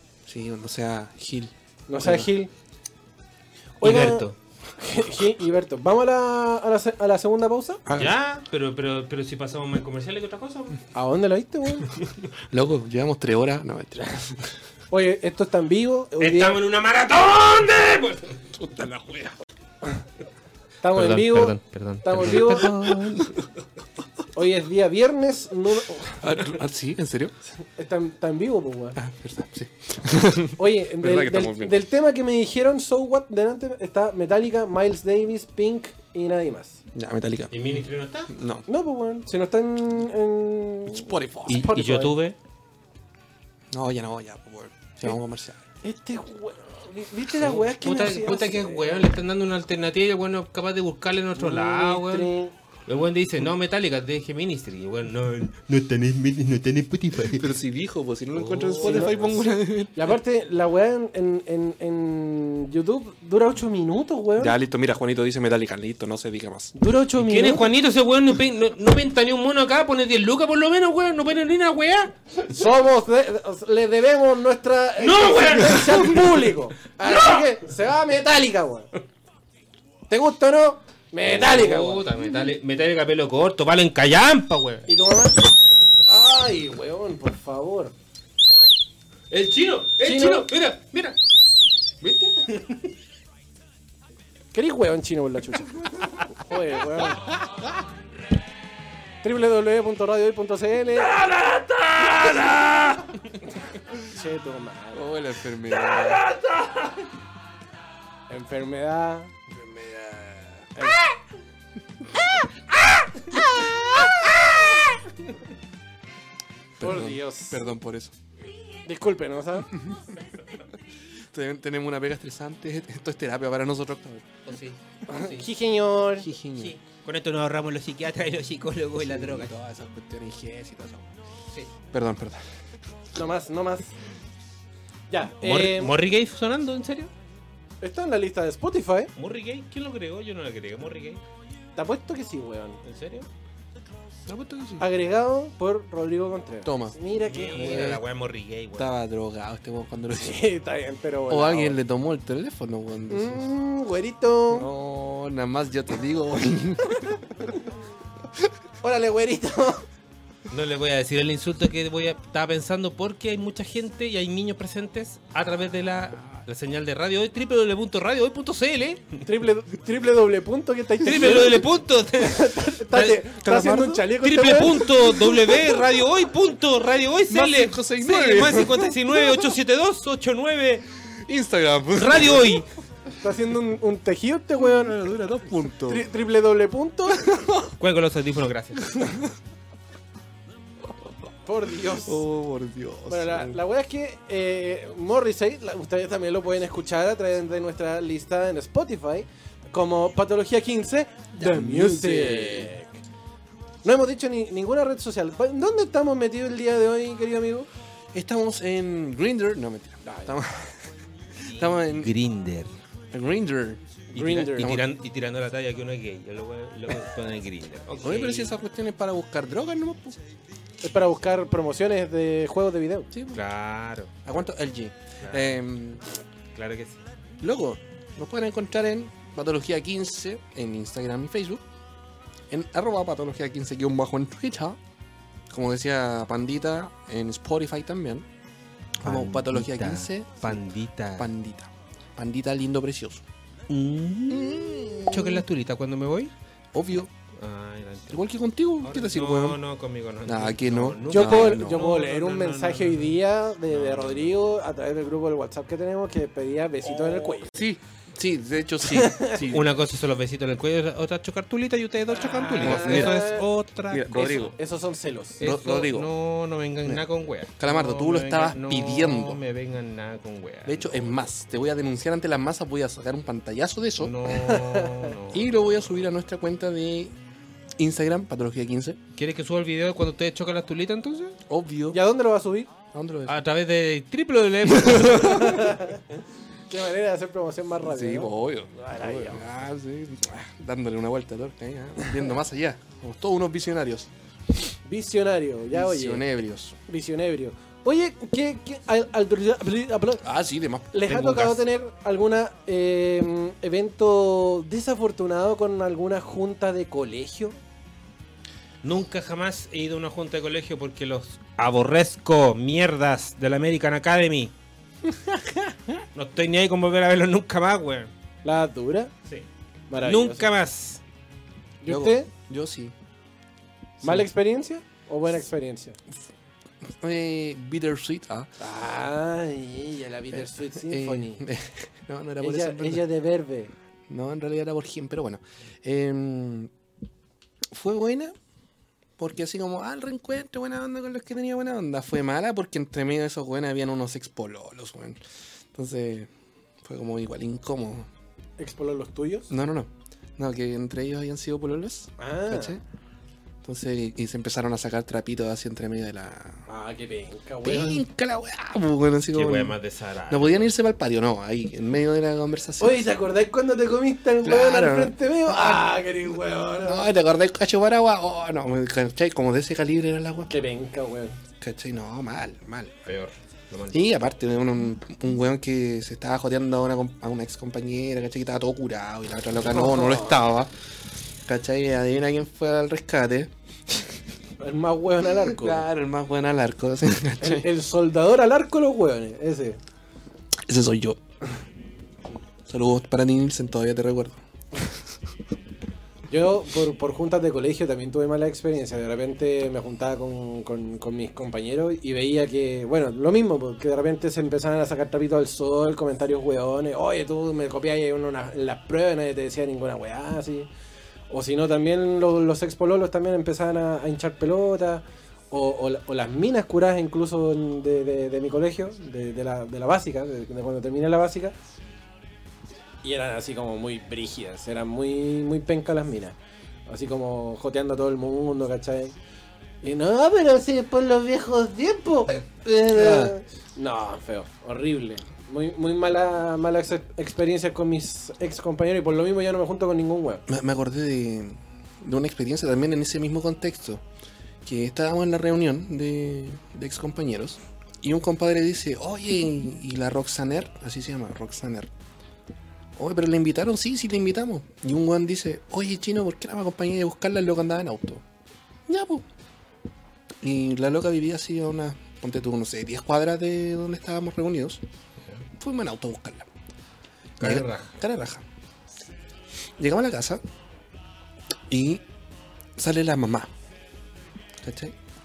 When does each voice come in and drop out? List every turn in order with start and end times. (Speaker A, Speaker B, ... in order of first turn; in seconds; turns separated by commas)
Speaker A: 0.2-2.3, Speaker B: 1.9-2.5, Speaker B: 3.8-7.8, Speaker C: 3.8-4.3, Speaker A: 7.8-8.1, Speaker C: 8.0-10.8, Speaker B: 10.9-11.9, Speaker A: 12.5-14.4, Speaker B: 14.9-16.6, Speaker C: 16.2-18.4, Speaker A: 18.5-19.4, Speaker B: 20.8-22.7, Speaker C: 20.9-23.4, Speaker A: 22.4-23.3, Speaker B: 24.3-26.5, Speaker A: 26.2-27.3, Speaker B: 27.7-29.0, Speaker A: 28.9-31.8, Speaker B: 30.6-36.8, Speaker A: 36.9-37.5, Speaker C: 37.5-38.3, Speaker A: 38.3-38.6, Speaker B: 38.7-42.1, Speaker A: 40.9-41.7, Speaker C: 41.5-42.4, Speaker A: 43.7-45.6, Speaker B: 45.8-48.9, Speaker C: 47.4-52.3, Speaker B: 51.4-52.5, Speaker C: 52.9-57.5, Speaker A: 57.3-60.1, Speaker C: 58.3-59.5, Speaker B: 58.8-59.3, Speaker B: 59.9-64.5, Speaker A: 64.4-66.7, Speaker B: 66.7-67.7, Speaker C: 67.2-72.1, Speaker B: 72.5-78.9, Speaker C: 75.0-76.2, Speaker C: 77.0-77.5, Speaker B: 80.1-82.0, Speaker C: 81.2-84.9, Speaker B: 84.9-85.4, Speaker B: 86.0-87.9, Speaker C: 89.3-91.2, Speaker B: 90.0-90.5, Speaker C: 92.0-92.9, Speaker B: 94.5-97.3, Speaker B: 99.2-101.2, Speaker C: 101.0-103.4, Speaker B: 103.9-105.1, Speaker A: 104.9-106.3, Speaker C: 105.7-107.1, Speaker B: 108.3-109.3, Speaker A: 109.5-110.7, Speaker B: 110.8-111.0, Speaker B: 113.3-113.8, Speaker A: 116.8-118.1, Speaker B: 116.8-117.6, Speaker B: 118.8-119.8, Speaker A: 121.3-124.3, Speaker C: 124.5-125.5, Speaker B: 125.1-126.3, Speaker A: 126.2-126.7, Speaker C: 126.5-129.5, Speaker A: 129.0-131.1, Speaker A: 131.9-132.4, Speaker B: 133.1-133.9, Speaker B: 135.1-135.9, Speaker C: 135.4-137.1, Speaker B: 137.8-139.1, Speaker C: 139.2-141.2, Speaker B: 141.8-142.8, Speaker C: 142.8-143.3, Speaker A: 144.3-144.8, Speaker B: 144.8-148.0, Speaker A: 146.6-146.9, Speaker C: 147.2-149.0, Speaker A: 147.5-148.0, Speaker A: 148.8-150.4, Speaker B: 150.1-151.8, Speaker A: 151.3-153.5, Speaker B: 153.1-154.7, Speaker A: 154.5-157.5, Speaker B: 158.8-159.8, Speaker C: 160.5-169.2, Speaker B: 169.2-171.7, Speaker C: 171.0-173.2, Speaker B: 172.2-175.3, Speaker A: 173.3-174.1, Speaker C: 174.2-180.8, Speaker A: 177.3-179.5, Speaker A: 181.0-182.6, Speaker C: 181.9-182.7, Speaker B: 183.2-185.0, Speaker A: 184.6-186.1, Speaker B: 185.8-187.4, Speaker A: 187.3-187.7, Speaker C: 187.8-189.0, Speaker A: 188.8-189.3, Speaker B: 191.4-192.2, Speaker A: 191.9-193.6, Speaker B: 193.1-203.0, Speaker A: 201.3-202.7, Speaker B: 203.8-207.7, Speaker A: 208.1-210.9, Speaker B: 210.0-210.4, Speaker C: 211.4-212.8, Speaker A: 211.5-212.1, Speaker A: 213.1-213.8, Speaker B: 214.1-214.7, Speaker C: 214.1-218.5, Speaker A: 214.6-214.8, Speaker A: 218.0-220.2, Speaker B: 220.8-223.3, Speaker C: 223.3-224.1, Speaker A: 224.2-226.0, Speaker C: 225.2-225.6, Speaker C: 226.5-227.0, Speaker A: 227.4-231.6, Speaker A: 232.5-234.8, Speaker A: 235.5-238.2, Speaker A: 239.0-240.6, Speaker C: 239.0-241.3, Speaker A: 241.2-243.2, Speaker C: 243.7-246.3, Speaker A: 244.3-245.4, Speaker A: 246.7-247.1, Speaker C: 247.3-248.2, Speaker A: 248.1-249.6, Speaker C: 248.8-254.4, Speaker A: 250.2-251.8, Speaker B: 251.1-257.5, Speaker A: 256.8-259.7, Speaker B: 258.8-259.4, Speaker C: 259.5-264.5, Speaker B: 262.1-263.4, Speaker A: 262.6-263.2, Speaker A: 263.9-264.6, Speaker B: 264.1-265.4, Speaker C: 265.4-271.3, Speaker A: 265.4-266.1, Speaker A: 267.6-269.4, Speaker A: 270.6-274.2, Speaker C: 274.0-276.0, Speaker B: 274.3-275.1, Speaker A: 275.3-277.1, Speaker A: 277.8-279.0, Speaker C: 279.1-281.4, Speaker A: 281.5-282.0, Speaker B: 281.9-282.7, Speaker A: 282.9-283.4, Speaker C: 283.3-285.8, Speaker A: 284.7-285.6, Speaker B: 285.3-286.0, Speaker B: 286.7-289.5, Speaker A: 287.8-294.1, Speaker B: 294.9-296.3, Speaker A: 295.7-296.8, Speaker B: 296.9-300.2, Speaker A: 300.2-301.4, Speaker B: 300.9-307.6, Speaker C: 301.1-301.6, Speaker C: 308.8-314.5, Speaker C: 316.1-318.1, Speaker B: 318.4-319.1, Speaker B: 319.9-320.5, Speaker C: 320.0-321.0, Speaker B: 321.8-322.3, Speaker A: 321.9-322.9, Speaker A: 324.0-324.3, Speaker B: 324.0-326.0, Speaker A: 326.8-328.5, Speaker B: 328.6-331.4, Speaker A: 330.3-333.0, Speaker B: 332.4-333.7, Speaker A: 334.1-336.7, Speaker A: 337.7-338.3, Speaker A: 339.2-345.2, Speaker A: 345.7-346.3, Speaker A: 346.8-348.1, Speaker B: 348.6-349.5, Speaker A: 349.5-352.8, Speaker B: 352.2-352.8, Speaker A: 353.6-356.6, Speaker B: 356.7-358.0, Speaker A: 357.6-359.8, Speaker C: 359.3-360.7, Speaker A: 360.3-363.1, Speaker B: 362.8-367.1, Speaker A: 364.4-365.9, Speaker A: 366.8-370.5, Speaker B: 370.5-371.4, Speaker A: 371.6-373.0, Speaker C: 373.1-374.0, Speaker A: 373.9-380.7, Speaker B: 379.7-380.4, Speaker A: 381.5-384.0, Speaker B: 384.6-385.9, Speaker A: 385.4-387.7, Speaker B: 387.4-389.8, Speaker A: 390.7-391.2, Speaker A: 392.7-394.4, Speaker B: 396.3-410.7, Speaker B: 411.3-421.6, Speaker B: 423.0-426.3, Speaker B: 426.9-429.1, Speaker B: 429.8-440.4, Speaker A: 432.9-433.3, Speaker A: 440.5-444.0, Speaker A: 444.6-451.9, Speaker A: 453.0-458.2, Speaker A: 458.9-459.2, Speaker A: 460.4-464.8, Speaker A: 465.5-466.4, Speaker C: 467.4-467.9, Speaker A: 467.4-468.4, Speaker A: 469.8-470.4, Speaker A: 471.7-472.0, Speaker A: 472.8-473.5, Speaker A: 474.6-474.9